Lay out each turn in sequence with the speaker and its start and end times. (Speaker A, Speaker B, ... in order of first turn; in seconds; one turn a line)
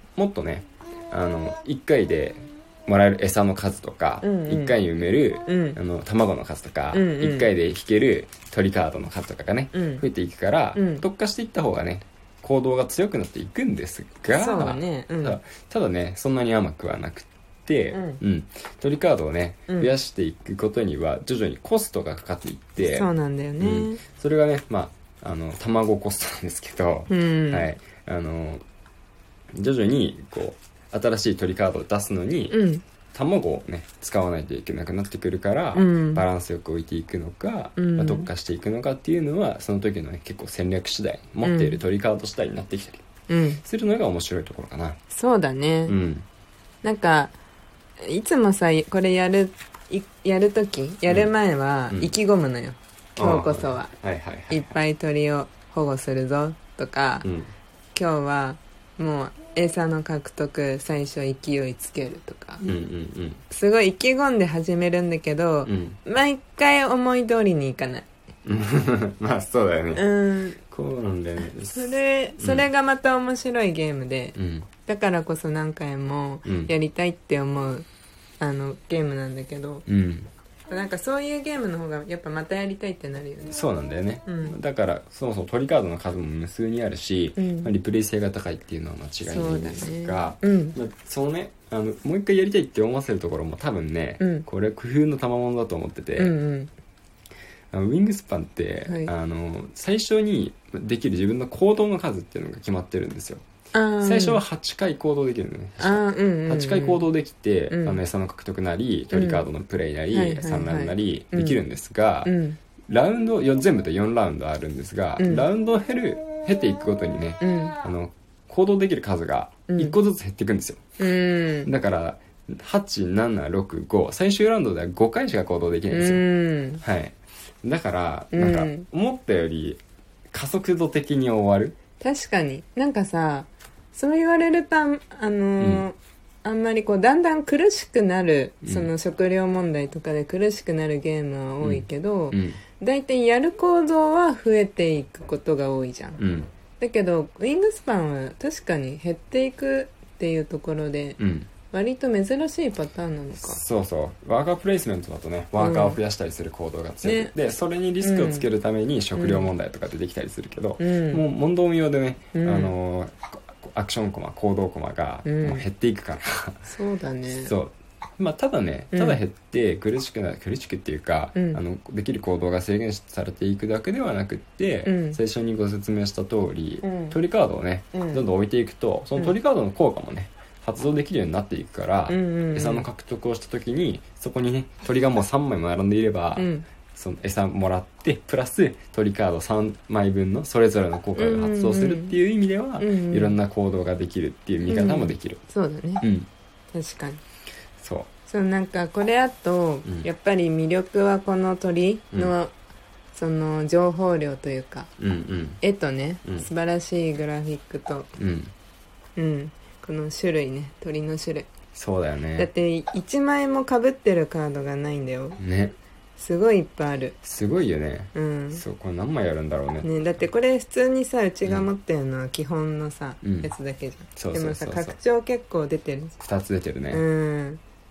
Speaker A: 0.1-23.1
Speaker B: 4.2-4.7
Speaker B: 5.4-5.8
Speaker B: 6.9-7.5
Speaker B: 9.7-10.0
Speaker B: 10.7-11.0
Speaker B: 14.3-15.4
Speaker B: 17.9-18.2
Speaker B: 22.8-24.0
Speaker A: 23.6-28.6
Speaker B: 27.1-27.7
Speaker A: 29.5-32.6
Speaker B: 32.5-32.8
Speaker A: 33.1-43.0
Speaker B: 35.7-36.2
Speaker B: 37.8-38.3
Speaker B: 41.4-41.8
Speaker B: 43.3-43.6
Speaker A: 43.6-45.0
Speaker B: 45.1-46.0
Speaker A: 45.9-46.2
Speaker B: 46.8-47.3
Speaker B: 48.0-53.9
Speaker A: 51.1-51.3
Speaker A: 53.2-54.7
Speaker B: 54.5-57.2
Speaker A: 57.2-57.5
Speaker B: 57.9-62.6
Speaker A: 62.6-63.4
Speaker B: 63.5-68.1
Speaker A: 65.7-66.0
Speaker A: 68.4-70.0
Speaker B: 69.9-70.6
Speaker A: 70.7-72.7
Speaker B: 71.7-77.9
Speaker A: 74.3-74.7
Speaker A: 76.4-76.7
Speaker B: 78.4-79.8
Speaker A: 79.9-80.3
Speaker B: 80.7-83.6
Speaker A: 83.5-96.3
Speaker B: 84.2-84.6
Speaker B: 87.4-87.7
Speaker B: 89.2-90.8
Speaker B: 94.2-94.5
Speaker B: 96.2-96.7
Speaker A: 97.7-103.4
Speaker B: 103.7-104.4
Speaker A: 104.0-112.3
Speaker B: 105.8-107.0
Speaker B: 107.7-108.0
Speaker B: 109.1-109.5
Speaker B: 110.1-111.6
Speaker B: 112.2-112.6
Speaker A: 112.9-120.8
Speaker B: 115.2-115.5
Speaker B: 117.4-117.7
Speaker B: 119.7-120.0
Speaker B: 121.0-121.7
Speaker A: 121.6-126.2
Speaker B: 125.9-126.8
Speaker A: 126.8-129.8
Speaker B: 128.3-128.9
Speaker A: 130.3-131.8
Speaker B: 132.0-146.2
Speaker A: 138.6-138.9
Speaker A: 141.6-142.6
Speaker A: 146.2-146.5
Speaker B: 146.8-151.2
Speaker A: 151.2-151.5
Speaker B: 151.7-153.6
Speaker A: 153.4-166.7
Speaker B: 155.6-156.0
Speaker B: 157.0-157.3
Speaker B: 158.0-158.5
Speaker B: 159.2-159.5
Speaker B: 160.8-161.2
Speaker B: 162.3-162.7
Speaker B: 165.2-165.7
Speaker B: 166.6-167.5
Speaker A: 167.2-195.4
Speaker B: 168.9-169.2
Speaker B: 171.3-171.6
Speaker B: 174.8-175.2
Speaker B: 176.8-177.2
Speaker B: 177.9-178.2
Speaker B: 182.1-182.9
Speaker B: 186.3-186.6
Speaker B: 191.2-192.1
Speaker B: 192.8-193.4
Speaker B: 194.7-196.0
Speaker A: 196.0-196.3
Speaker B: 196.7-197.2
Speaker A: 197.8-198.1
Speaker B: 198.3-202.5
Speaker B: 203.1-204.9
Speaker A: 205.0-205.6
Speaker B: 205.6-208.1
Speaker A: 208.2-208.5
Speaker B: 209.2-211.5
Speaker A: 211.7-212.5
Speaker B: 212.4-215.4
Speaker A: 215.4-215.7
Speaker B: 216.2-217.2
Speaker A: 217.2-219.9
Speaker B: 218.1-218.6
Speaker B: 219.8-226.2
Speaker A: 223.2-223.5
Speaker A: 224.1-225.0
Speaker A: 226.2-227.0
Speaker B: 226.9-227.6